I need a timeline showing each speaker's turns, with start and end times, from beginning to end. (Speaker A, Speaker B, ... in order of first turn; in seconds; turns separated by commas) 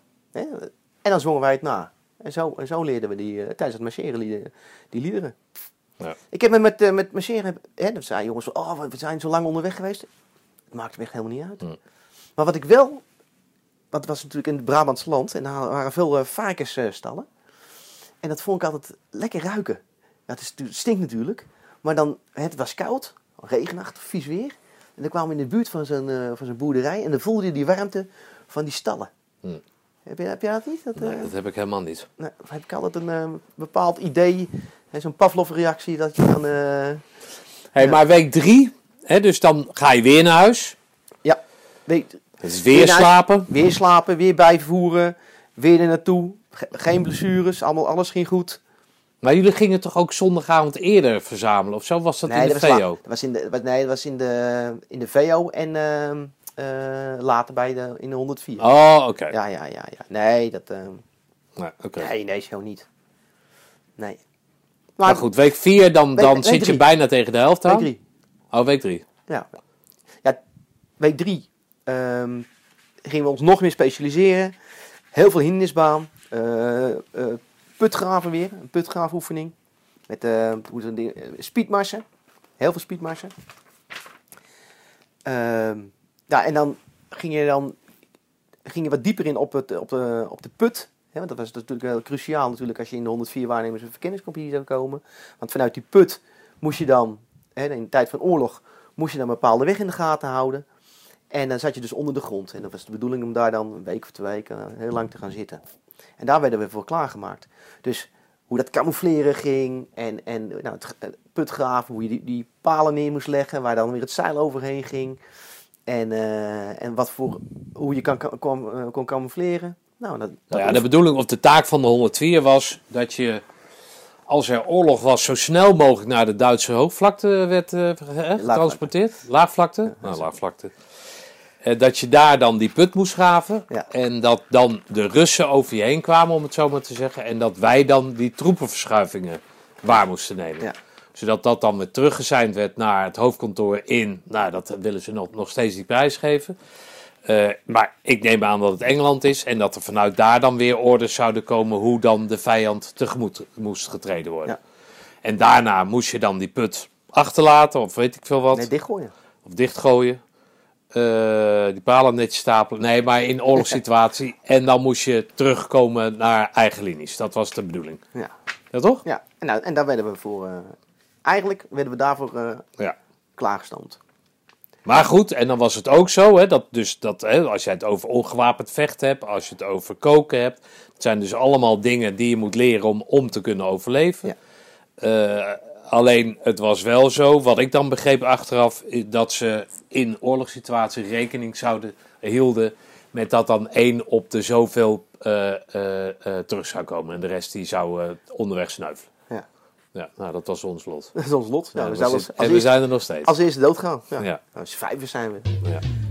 Speaker A: 0.3-5.4, Speaker A: 6.3-10.1, Speaker A: 10.7-11.6, Speaker A: 12.4-13.0, Speaker A: 13.9-17.3, Speaker A: 18.2-29.1, Speaker A: 30.1-31.3, Speaker B: 31.0-32.1, Speaker A: 32.2-37.0, Speaker B: 37.7-40.8, Speaker A: 41.2-48.6, Speaker B: 42.4-43.5, Speaker B: 49.2-53.0, Speaker A: 52.3-58.6, Speaker B: 58.6-59.3, Speaker A: 59.3-61.0, Speaker B: 61.6-62.1, Speaker A: 62.0-62.9, Speaker A: 65.0-65.3, Speaker B: 65.0-67.9, Speaker A: 66.2-66.8, Speaker A: 67.7-68.0, Speaker B: 68.5-69.0, Speaker A: 71.0-72.5, Speaker A: 73.0-74.6, Speaker A: 75.1-79.6, Speaker A: 80.1-82.0, Speaker A: 82.6-83.3, Speaker A: 85.2-87.8, Speaker A: 88.7-100.7, Speaker A: 101.3-105.6, Speaker A: 106.2-115.2, Speaker A: 115.9-120.8, Speaker B: 120.5-123.4, Speaker B: 124.3-130.7, Speaker A: 128.4-128.9, Speaker A: 129.9-130.2, Speaker B: 131.6-146.6, Speaker B: 147.2-154.6, Speaker B: 155.2-158.7, Speaker A: 158.5-159.1, Speaker B: 159.4-160.2, Speaker B: 160.9-168.0, Speaker B: 168.7-169.1, Speaker A: 169.1-172.7, Speaker A: 173.4-174.0, Speaker B: 174.9-184.3, Speaker B: 185.0-199.1, Speaker B: 199.9-201.2, Speaker A: 201.2-205.6, Speaker B: 201.8-203.3